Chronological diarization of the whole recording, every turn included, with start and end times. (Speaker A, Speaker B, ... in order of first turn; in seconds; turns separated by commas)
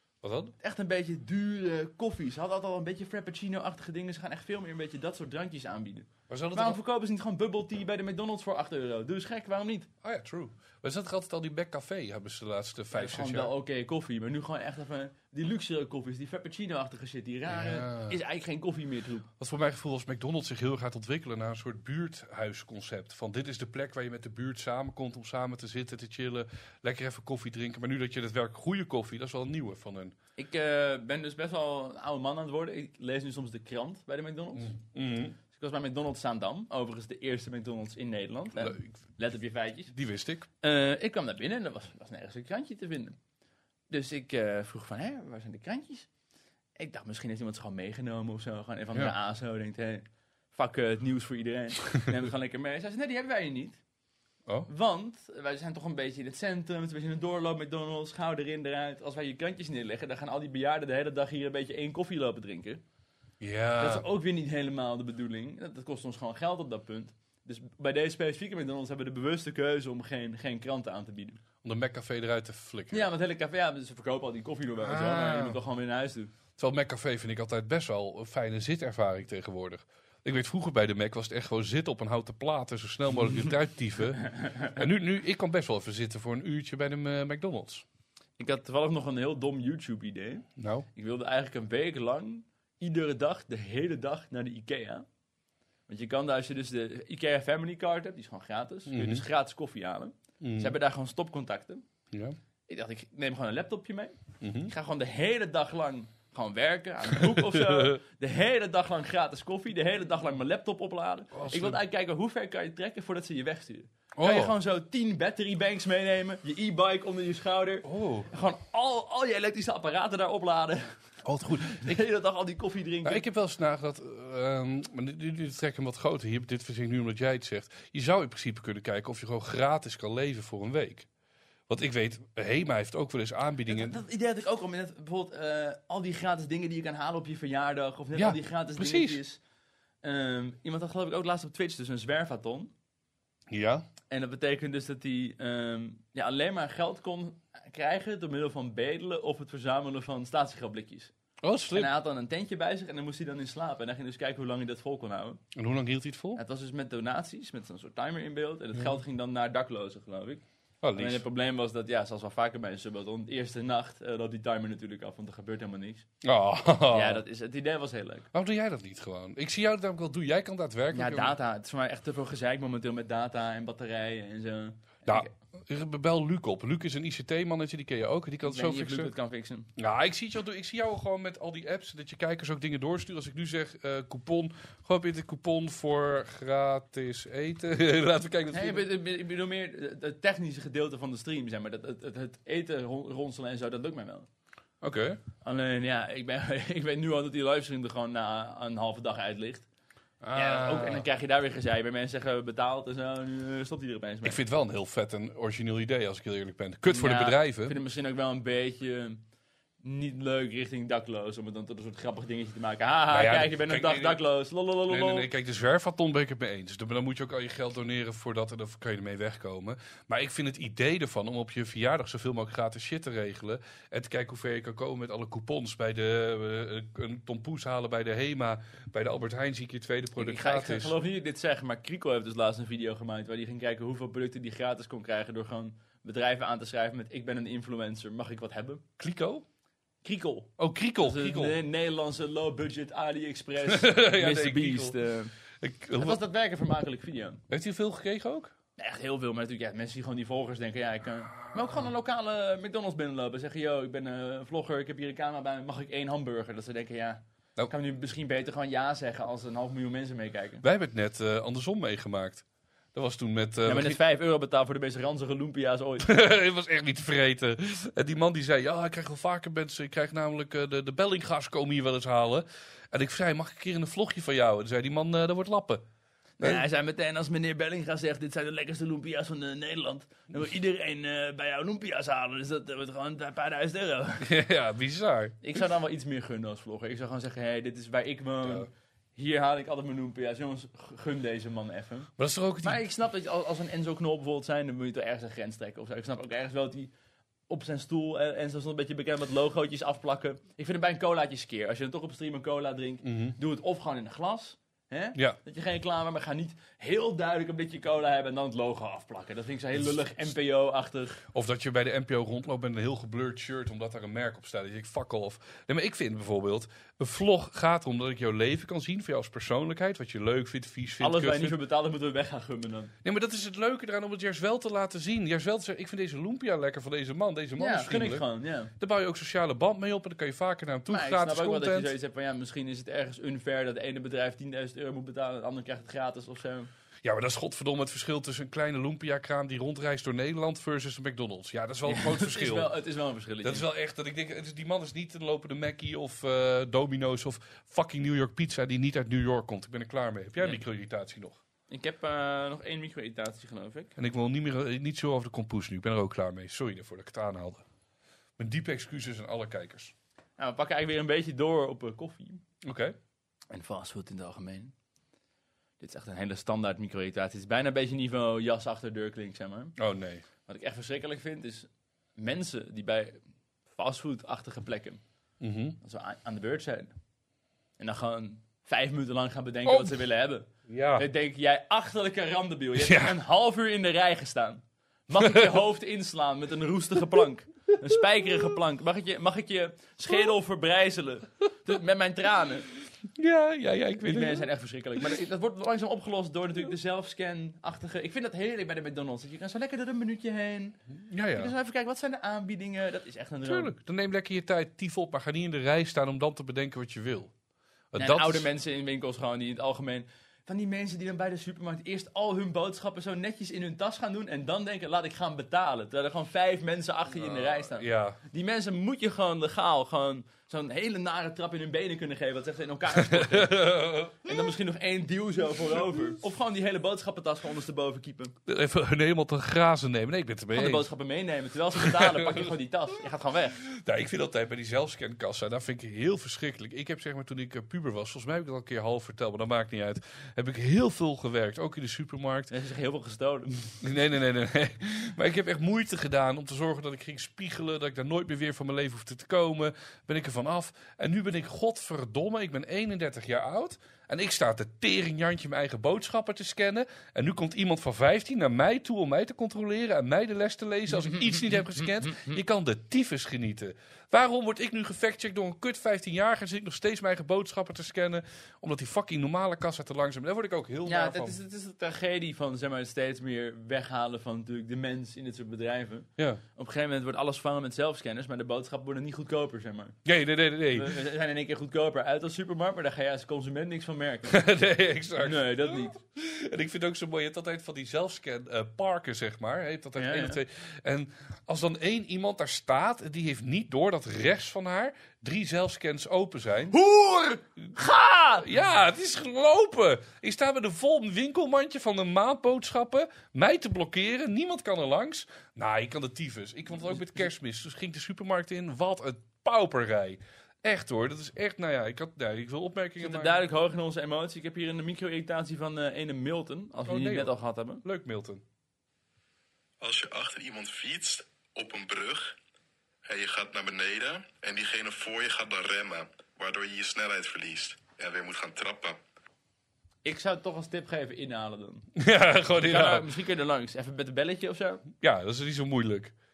Speaker A: 0.2-0.5, Speaker B: 0.6-9.9, Speaker A: 6.3-6.8, Speaker A: 10.0-13.5, Speaker B: 12.9-19.3, Speaker A: 17.5-18.2, Speaker A: 19.4-30.1, Speaker B: 30.4-34.8, Speaker A: 34.5-35.4, Speaker B: 35.5-39.9, Speaker A: 38.6-38.9, Speaker A: 39.9-40.5, Speaker B: 40.6-43.2, Speaker B: 43.9-46.1, Speaker B: 46.8-53.8, Speaker B: 54.7-62.8, Speaker A: 63.4-64.1, Speaker B: 63.8-71.4, Speaker A: 71.6-73.1, Speaker B: 72.9-76.3, Speaker A: 74.8-75.6, Speaker A: 76.6-87.8, Speaker B: 84.3-84.7, Speaker B: 88.4-95.0, Speaker A: 90.6-90.9, Speaker B: 95.9-101.8, Speaker A: 98.9-99.2, Speaker A: 100.4-100.8, Speaker A: 102.1-102.4, Speaker B: 102.7-120.9, Speaker A: 104.4-104.7, Speaker A: 107.2-108.0, Speaker A: 111.3-111.8, Speaker A: 114.2-114.5, Speaker A: 117.8-118.3, Speaker A: 121.2-122.0, Speaker B: 121.5-123.2, Speaker A: 123.0-131.1, Speaker A: 131.7-134.0, Speaker B: 133.7-139.4, Speaker A: 138.1-139.2, Speaker B: 140.0-142.7, Speaker A: 143.5-143.8, Speaker B: 144.1-151.1, Speaker A: 151.4-151.9, Speaker B: 151.7-155.4, Speaker A: 155.5-156.4, Speaker B: 156.3-160.4, Speaker A: 160.8-161.2, Speaker B: 160.9-166.1, Speaker A: 166.2-167.2, Speaker B: 166.9-168.3, Speaker A: 168.3-171.3, Speaker B: 170.9-175.3, Speaker A: 175.1-179.1, Speaker B: 178.4-179.7, Speaker A: 179.8-188.9, Speaker B: 188.5-194.3, Speaker A: 194.8-195.2, Speaker B: 195.4-199.7, Speaker A: 200.2-201.1, Speaker B: 200.3-204.4, Speaker A: 204.2-207.8, Speaker B: 206.9-209.2, Speaker B: 209.8-215.3, Speaker A: 213.1-214.2, Speaker A: 214.9-230.9, Speaker B: 230.2-238.8, Speaker A: 239.0-239.4, Speaker B: 240.0-245.3, Speaker A: 240.6-241.6, Speaker A: 243.6-244.9, Speaker A: 245.6-246.2, Speaker B: 246.0-247.4, Speaker A: 247.5-248.5, Speaker B: 248.8-260.6, Speaker A: 251.5-251.8, Speaker A: 260.6-264.0, Speaker B: 263.6-266.1, Speaker A: 266.0-275.8, Speaker B: 276.4-284.3, Speaker A: 284.2-285.4, Speaker B: 285.4-292.1, Speaker A: 288.4-288.7, Speaker A: 292.2-292.8, Speaker B: 292.6-296.9, Speaker B: 297.5-311.2, Speaker A: 303.0-303.4, Speaker A: 311.3-321.6, Speaker B: 321.0-322.9, Speaker A: 323.0-331.9, Speaker B: 327.6-328.7, Speaker B: 330.9-336.7, Speaker A: 337.0-342.7, Speaker B: 341.9-343.6, Speaker A: 343.4-351.4, Speaker B: 351.7-353.9, Speaker A: 353.9-357.6, Speaker A: 358.4-359.9, Speaker B: 360.4-362.4, Speaker A: 362.6-362.9, Speaker B: 363.5-364.7, Speaker B: 365.8-369.7, Speaker A: 369.8-370.2, Speaker B: 370.4-373.2, Speaker B: 373.7-375.0, Speaker A: 375.4-375.8, Speaker B: 375.8-376.9, Speaker B: 377.8-392.7, Speaker A: 379.6-380.0, Speaker A: 380.7-381.1, Speaker A: 382.8-383.2, Speaker A: 385.2-385.6, Speaker A: 393.1-395.2, Speaker B: 394.0-400.8, Speaker A: 401.0-401.5, Speaker B: 401.3-403.7, Speaker A: 403.4-407.3, Speaker A: 407.9-408.5, Speaker B: 408.0-423.7, Speaker A: 417.2-418.2, Speaker A: 422.9-424.5, Speaker B: 424.2-428.3, Speaker A: 428.4-430.9, Speaker B: 430.5-433.6, Speaker A: 431.8-432.5, Speaker A: 433.6-442.5, Speaker B: 442.5-443.8, Speaker A: 443.8-471.4, Speaker B: 460.9-462.4, Speaker B: 470.9-479.9, Speaker A: 476.2-476.4, Speaker A: 480.0-480.9, Speaker B: 480.7-484.4, Speaker A: 484.3-496.8, Speaker B: 485.2-486.0, Speaker B: 490.0-490.4, Speaker B: 496.7-498.4, Speaker A: 498.4-513.4, Speaker B: 513.0-517.8, Speaker A: 516.9-518.4, Speaker C: 519.8-522.4, Speaker C: 523.0-529.0, Speaker B: 530.0-531.9, Speaker A: 532.0-533.1, Speaker B: 532.6-534.8, Speaker A: 535.0-536.1